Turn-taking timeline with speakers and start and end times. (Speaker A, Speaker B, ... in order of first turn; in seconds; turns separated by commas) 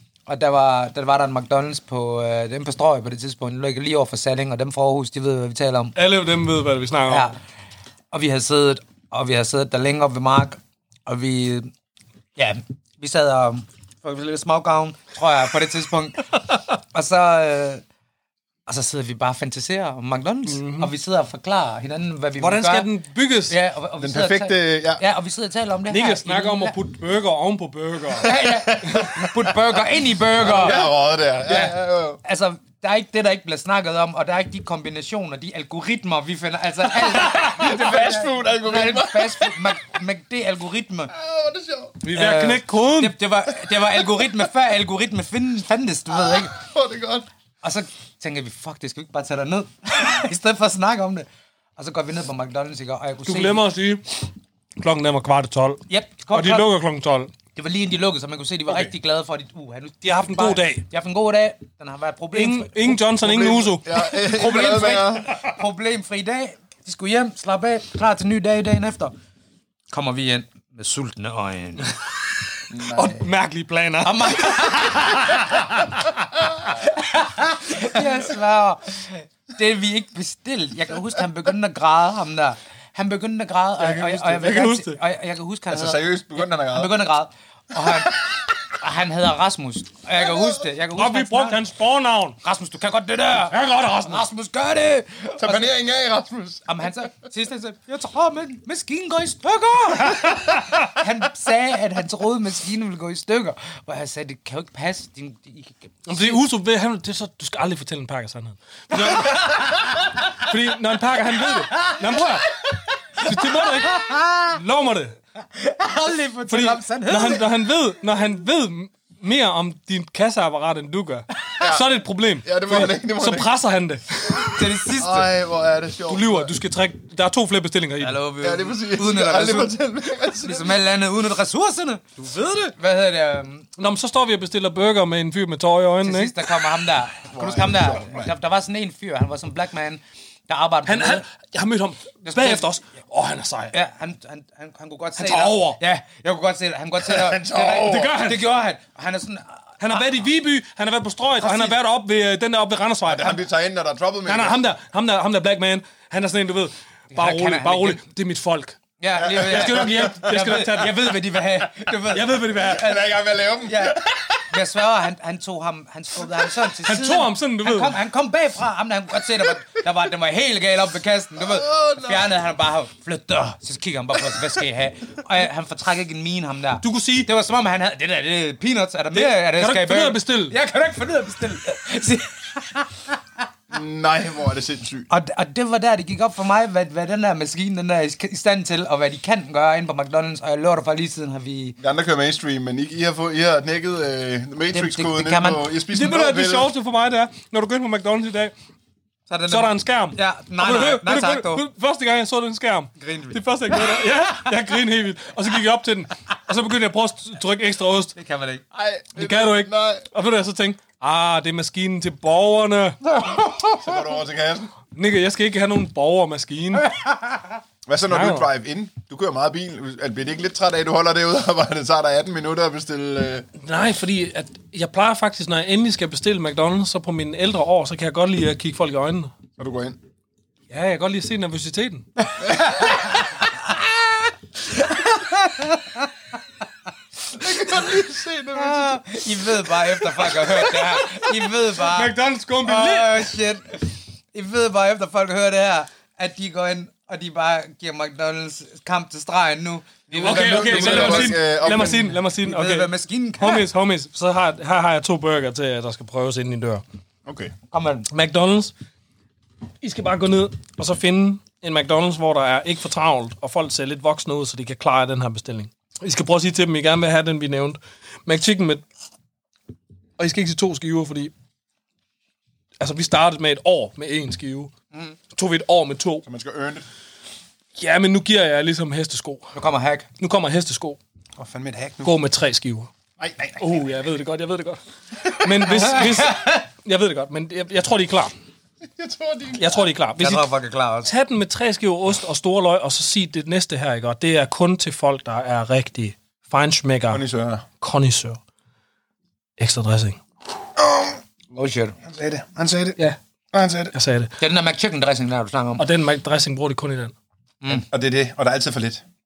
Speaker A: 0.3-6.0, Speaker B: 5.9-7.3, Speaker A: 7.1-7.4, Speaker A: 8.1-11.7, Speaker A: 12.3-17.8, Speaker A: 18.7-22.9, Speaker B: 20.4-20.9, Speaker B: 22.4-23.5, Speaker A: 23.5-26.8, Speaker C: 24.0-25.0, Speaker B: 25.9-28.3, Speaker A: 28.2-30.8, Speaker C: 28.6-29.5, Speaker C: 30.4-32.2, Speaker B: 30.4-30.8, Speaker A: 31.4-41.1, Speaker C: 37.2-39.7, Speaker C: 41.1-42.0, Speaker B: 42.0-43.1, Speaker A: 42.1-46.5, Speaker C: 46.1-47.2, Speaker A: 47.6-53.6, Speaker B: 53.2-57.3, Speaker A: 55.9-56.7, Speaker A: 57.5-63.0, Speaker C: 58.7-58.9, Speaker B: 60.0-60.8, Speaker B: 62.3-63.9, Speaker C: 63.2-65.3, Speaker A: 63.9-69.1, Speaker A: 69.9-72.0, Speaker C: 72.7-73.2, Speaker B: 72.8-76.1, Speaker A: 74.0-75.5, Speaker A: 76.6-91.6, Speaker B: 83.8-85.0, Speaker C: 85.7-86.9, Speaker B: 90.9-92.4, Speaker A: 92.4-95.7, Speaker B: 93.5-94.2, Speaker C: 95.4-97.0, Speaker A: 96.7-106.4, Speaker B: 106.1-112.6, Speaker A: 109.0-110.0, Speaker A: 111.7-114.6, Speaker B: 113.1-115.2, Speaker A: 115.4-117.5, Speaker B: 116.5-124.7, Speaker C: 121.6-121.8, Speaker C: 122.4-123.5, Speaker A: 124.5-125.3, Speaker C: 124.9-126.5, Speaker B: 126.1-128.2, Speaker A: 128.0-129.7, Speaker C: 128.4-130.8, Speaker A: 130.4-133.7, Speaker B: 132.2-132.7, Speaker B: 133.8-136.3, Speaker A: 136.0-141.2, Speaker C: 137.3-138.3, Speaker B: 140.8-143.7, Speaker A: 142.2-142.7, Speaker A: 143.7-150.0, Speaker B: 145.2-145.8, Speaker C: 147.0-148.2, Speaker B: 147.7-148.5, Speaker B: 149.8-153.4, Speaker A: 151.4-151.8, Speaker C: 153.1-154.6, Speaker B: 154.2-158.8, Speaker A: 157.1-158.0, Speaker A: 159.0-162.9, Speaker C: 159.2-160.2, Speaker B: 159.4-161.2, Speaker B: 162.1-163.0, Speaker C: 162.6-164.4, Speaker A: 163.6-183.2, Speaker B: 166.8-168.0, Speaker C: 171.4-172.3, Speaker B: 176.8-177.3, Speaker B: 179.1-180.6, Speaker C: 183.7-185.1, Speaker A: 185.1-191.8, Speaker C: 191.8-196.7, Speaker A: 194.7-195.6, Speaker B: 195.9-198.5, Speaker A: 199.3-201.6, Speaker B: 199.5-208.1, Speaker A: 203.0-203.4, Speaker A: 208.2-208.6, Speaker C: 208.7-210.1, Speaker B: 209.2-213.0, Speaker A: 213.2-213.8, Speaker C: 213.6-214.7, Speaker B: 214.9-216.9, Speaker A: 216.9-217.4, Speaker C: 217.8-223.5, Speaker B: 218.1-218.5, Speaker B: 223.6-229.3, Speaker C: 229.6-230.0, Speaker B: 230.7-232.1, Speaker A: 232.5-233.3, Speaker A: 234.7-236.1, Speaker C: 237.3-239.2, Speaker A: 238.5-253.7, Speaker B: 241.8-243.3, Speaker B: 250.1-256.8, Speaker C: 250.1-252.1, Speaker C: 257.2-257.5, Speaker A: 257.7-258.1, Speaker B: 258.1-258.7, Speaker B: 259.8-268.8, Speaker B: 270.2-271.3, Speaker B: 272.8-274.7, Speaker B: 275.3-276.2, Speaker C: 276.2-276.8, Speaker B: 277.8-279.5, Speaker A: 279.5-280.1, Speaker B: 280.2-281.0, Speaker C: 281.4-282.1, Speaker B: 282.0-282.9, Speaker C: 283.2-283.9, Speaker B: 283.6-288.3, Speaker A: 285.7-286.6, Speaker C: 288.8-289.8, Speaker B: 289.5-290.5, Speaker A: 290.2-291.1, Speaker B: 291.0-297.2, Speaker C: 297.1-297.6, Speaker B: 297.8-298.4, Speaker B: 299.6-300.2, Speaker A: 301.5-301.9, Speaker C: 302.0-303.0, Speaker C: 303.5-303.9, Speaker B: 303.9-304.3, Speaker A: 304.4-305.8, Speaker B: 305.8-307.1, Speaker C: 307.7-309.0